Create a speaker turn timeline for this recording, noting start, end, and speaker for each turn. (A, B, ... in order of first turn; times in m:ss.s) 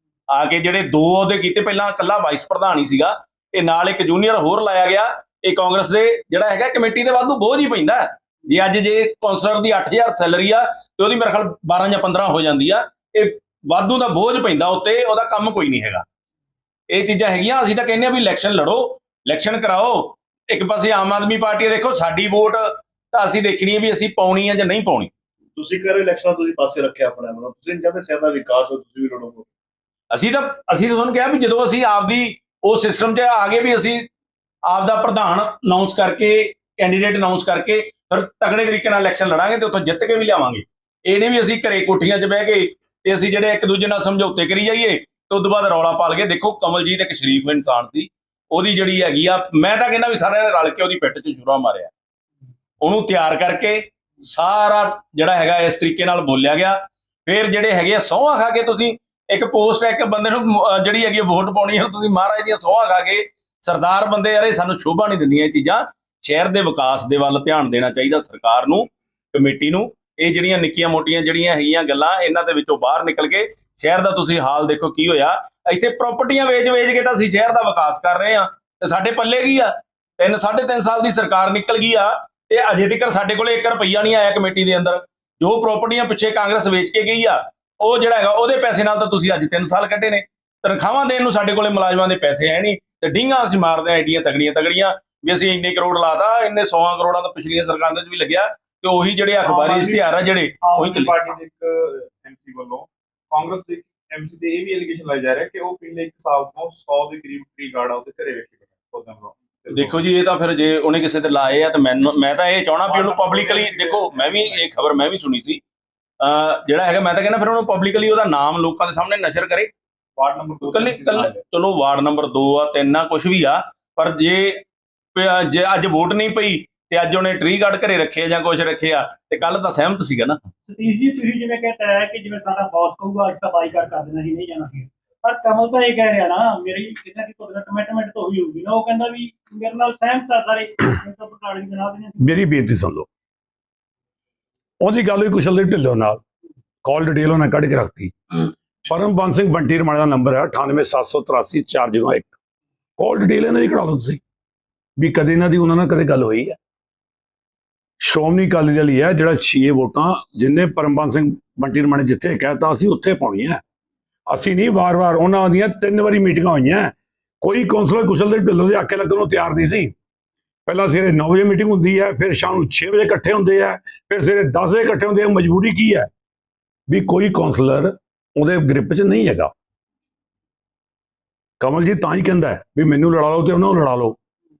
0:00.3-0:16.0 A
0:16.9-0:25.1 A
0:25.6-0:29.5 B
0:30.1-0:34.0 A
0:34.7-0:51.9 A
0:52.8-1:41.2 A
1:39.4-1:50.0 C
1:49.7-1:55.6 A
1:52.8-1:54.6 C
1:56.2-1:59.7 A
2:00.2-2:01.4 C
2:00.6-2:04.6 A
2:05.1-2:10.4 A
2:10.7-2:22.4 D
2:22.2-2:23.1 E
2:24.8-2:26.2 E
2:26.8-2:28.1 E
2:28.8-2:32.4 E
2:33.0-2:34.2 E
2:35.0-2:36.6 E
2:38.0-2:43.6 E
2:44.3-2:49.9 E
2:50.6-2:56.1 E
2:56.9-2:59.5 E
3:01.6-3:04.2 E